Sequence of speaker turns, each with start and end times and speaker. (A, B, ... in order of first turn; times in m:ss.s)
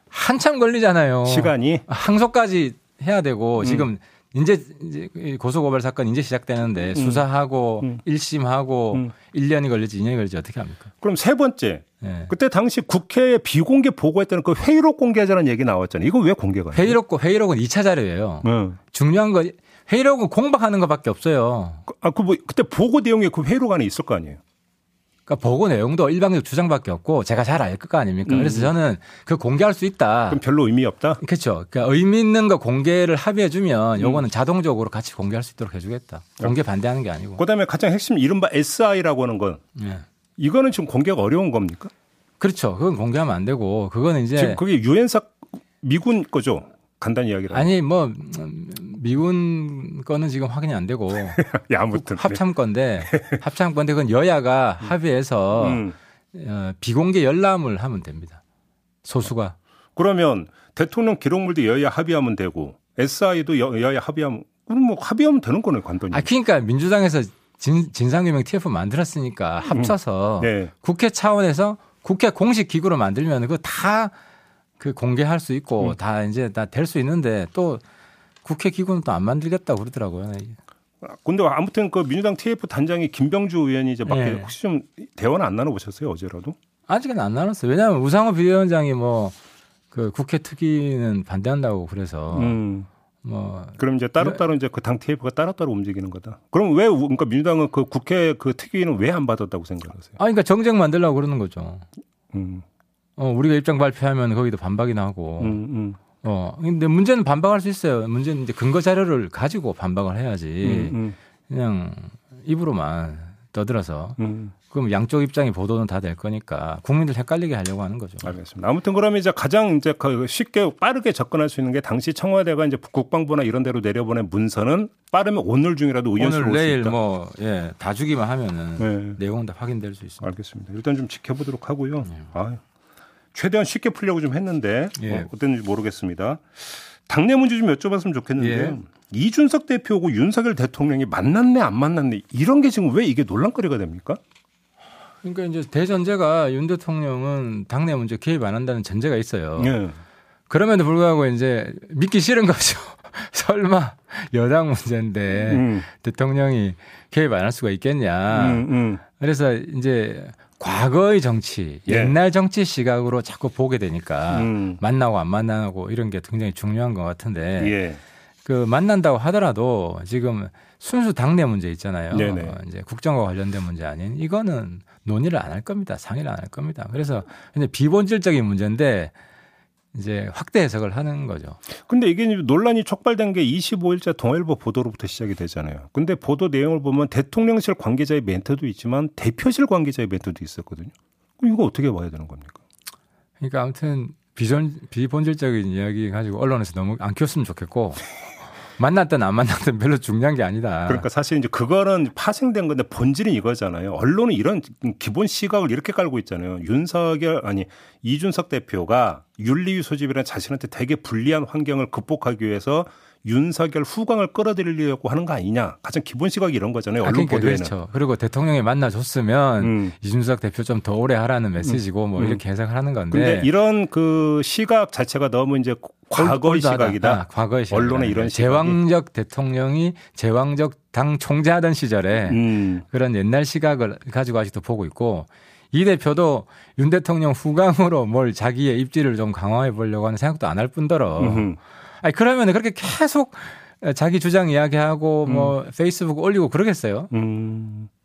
0:00.1-0:10.9 A
0:01.2-0:01.8 B
0:03.6-0:03.9 B
0:06.9-0:07.2 B
0:11.0-0:17.0 B
0:12.0-0:12.3 A
0:16.7-0:21.8 A
0:18.4-0:18.8 B
0:21.9-0:24.4 B
0:25.3-0:30.4 A
0:28.3-0:28.7 B
0:30.3-0:31.2 B
0:31.2-0:37.4 A
0:37.4-0:39.6 B
0:39.8-0:40.0 A
0:40.4-0:41.9 B
0:42.4-0:44.6 A
0:44.4-0:47.7 B
0:47.5-0:58.4 A
0:51.4-0:52.4 B
0:53.0-0:53.4 B
0:55.6-0:55.9 B
0:59.0-0:59.6 A
1:00.0-1:06.3 B
1:06.1-1:14.1 A
1:09.7-1:10.7 B
1:14.8-1:17.8 A
1:18.4-1:20.6 A
1:21.0-1:26.6 B
1:24.0-1:24.5 A
1:26.9-1:29.4 A
1:29.9-1:32.6 A
1:32.3-1:32.9 B
1:33.2-1:34.4 A
1:33.8-1:40.2 B
1:40.2-1:41.8 A
1:42.3-1:42.6 B
1:43.2-1:45.6 A
1:45.4-1:46.0 B
1:46.2-1:51.0 A
1:50.6-1:51.2 B
1:51.5-1:58.3 A
1:54.2-1:54.5 B
1:58.2-2:06.9 B
2:06.2-2:10.3 A
2:08.8-2:09.2 B
2:10.2-2:12.6 B
2:13.3-2:24.2 B
2:15.0-2:15.3 A
2:18.4-2:18.8 A
2:25.2-2:29.8 A
2:29.6-2:30.0 B
2:30.5-2:38.6 A
2:35.5-2:35.9 B
2:38.3-2:39.0 B
2:39.2-2:47.8 A
2:41.9-2:42.1 B
2:44.3-2:44.8 B
2:47.6-2:48.0 B
2:48.4-2:59.1 A
2:52.1-2:52.6 B
2:59.9-3:01.6 A
3:01.9-3:12.6 B
3:13.4-3:18.0 A
3:18.7-3:21.1 A
3:20.9-3:37.7 B
3:37.0-3:43.5 A
3:39.6-3:39.9 B
3:41.6-3:42.4 B
3:43.1-3:48.8 B
3:46.1-4:01.5 A
3:52.3-3:52.8 B
4:01.2-4:01.6 B
4:02.0-4:07.1 A
4:05.2-4:05.5 B
4:07.1-4:07.9 B